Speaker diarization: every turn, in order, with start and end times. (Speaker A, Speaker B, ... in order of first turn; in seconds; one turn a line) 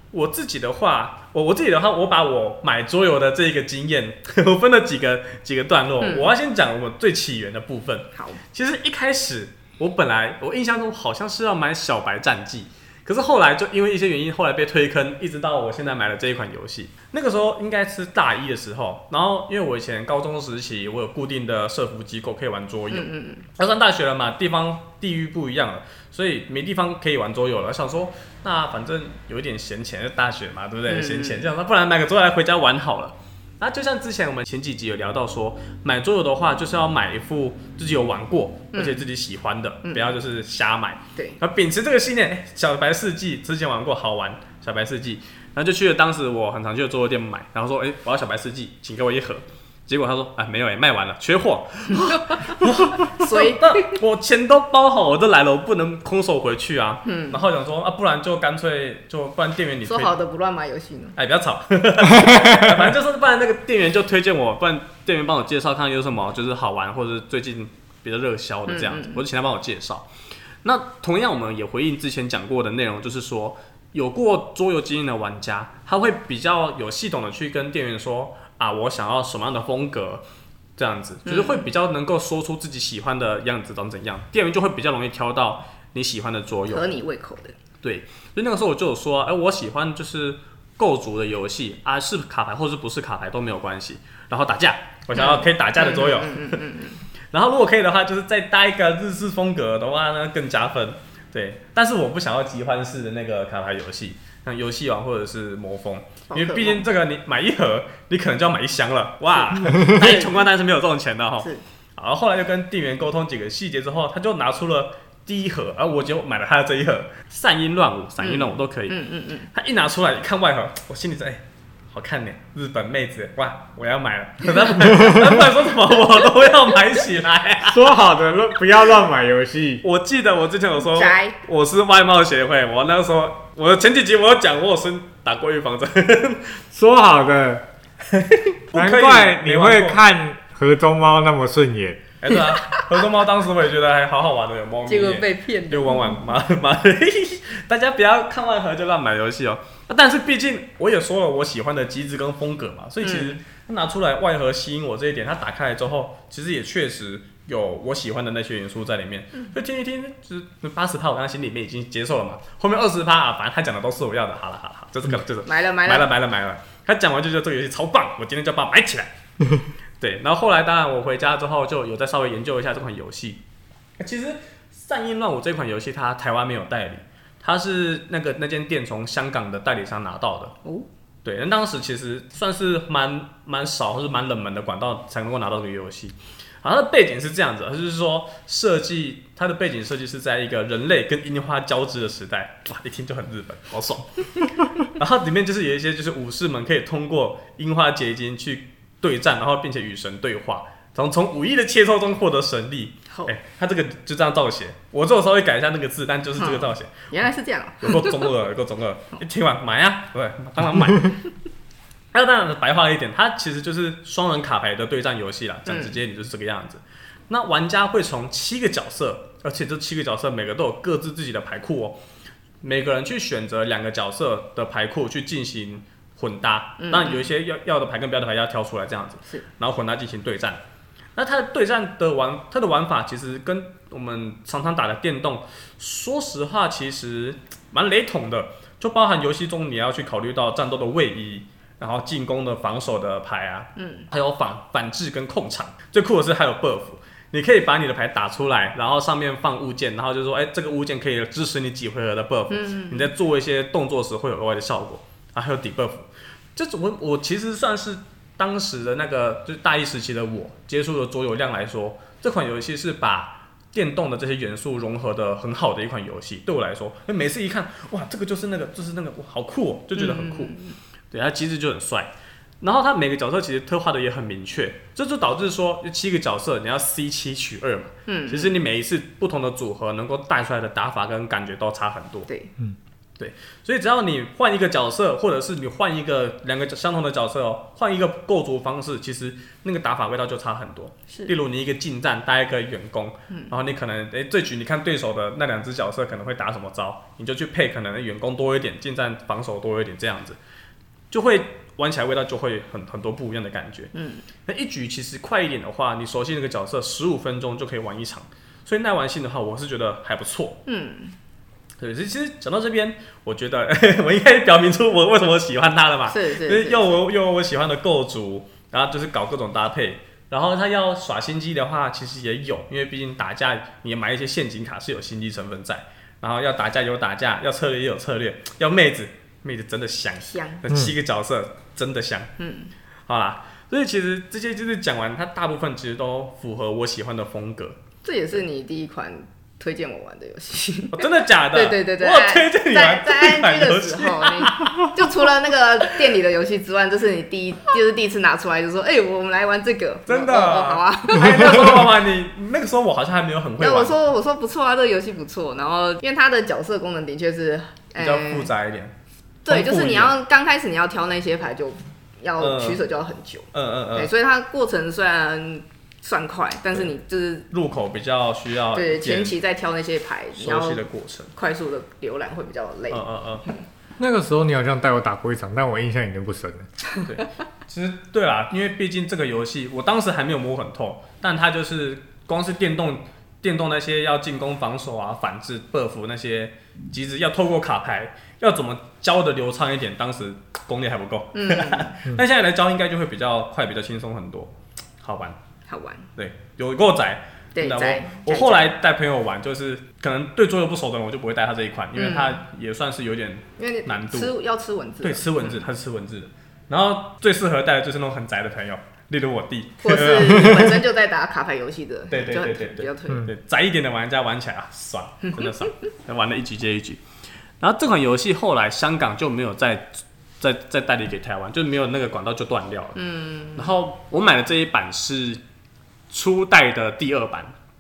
Speaker A: 0.1-60.1
Speaker B: 6.0-6.3
Speaker B: 8.1-8.4
Speaker B: 22.9-23.4
Speaker B: 30.9-31.5
Speaker B: 38.7-39.0
Speaker B: 39.8-40.1
Speaker B: 52.0-54.0
Speaker B: 57.0-57.4
Speaker B: 59.8-61.1
Speaker A: 61.1-70.1
Speaker C: 62.0-62.8
Speaker B: 68.7-69.2
Speaker A: 70.6-80.2
Speaker A: 80.8-86.9
Speaker B: 81.2-81.7
Speaker B: 86.7-87.5
Speaker A: 87.8-96.6
Speaker B: 95.1-97.0
Speaker A: 97.3-119.0
Speaker B: 106.3-106.8
Speaker B: 109.3-110.5
Speaker B: 118.2-119.5
Speaker A: 119.5-127.9
Speaker B: 124.6-124.9
Speaker C: 127.7-129.8
Speaker A: 129.8-136.6
Speaker B: 130.9-131.4
Speaker C: 136.7-137.7
Speaker A: 138.1-140.0
Speaker C: 138.7-142.0
Speaker A: 142.2-169.1
Speaker B: 144.9-146.3
Speaker B: 153.0-153.4
Speaker B: 165.4-166.1
Speaker A: 170.0-173.4
Speaker A: 174.0-180.5
Speaker A: 181.2-207.0
Speaker B: 206.4-208.3
Speaker A: 207.8-211.2
Speaker A: 212.1-222.0
Speaker B: 215.7-215.9
Speaker A: 222.6-230.6
Speaker B: 226.8-227.2
Speaker A: 231.2-270.6
Speaker B: 243.8-244.1
Speaker B: 252.5-253.1
Speaker B: 269.9-270.8
Speaker A: 271.1-282.3
Speaker B: 278.1-278.5
Speaker A: 283.2-300.4
Speaker A: 301.1-303.9
Speaker B: 303.9-304.2
Speaker A: 304.4-310.6
Speaker B: 310.6-311.1
Speaker A: 311.8-332.3
Speaker B: 316.1-317.0
Speaker B: 330.3-330.6
Speaker B: 332.4-332.7
Speaker A: 333.1-337.8
Speaker B: 338.0-352.0
Speaker A: 340.9-345.3
Speaker A: 350.1-353.9
Speaker B: 353.6-358.5
Speaker A: 358.0-358.9
Speaker A: 359.4-360.1
Speaker B: 359.4-367.5
Speaker A: 362.4-362.8
Speaker A: 363.5-364.1
Speaker A: 367.5-369.3
Speaker B: 368.7-370.8
Speaker A: 370.4-371.3
Speaker B: 371.3-373.6
Speaker A: 372.9-373.4
Speaker C: 374.0-376.7
Speaker A: 377.0-395.4
Speaker B: 391.3-391.9
Speaker B: 395.7-396.1
Speaker A: 396.1-404.3
Speaker B: 397.5-398.7
Speaker B: 401.9-402.4
Speaker B: 403.6-405.6
Speaker A: 405.0-410.6
Speaker B: 409.8-413.3
Speaker C: 410.0-410.8
Speaker A: 412.1-417.0
Speaker B: 415.2-415.7
Speaker A: 417.6-423.0
Speaker B: 422.9-423.7
Speaker A: 423.6-425.4
Speaker A: 426.1-427.5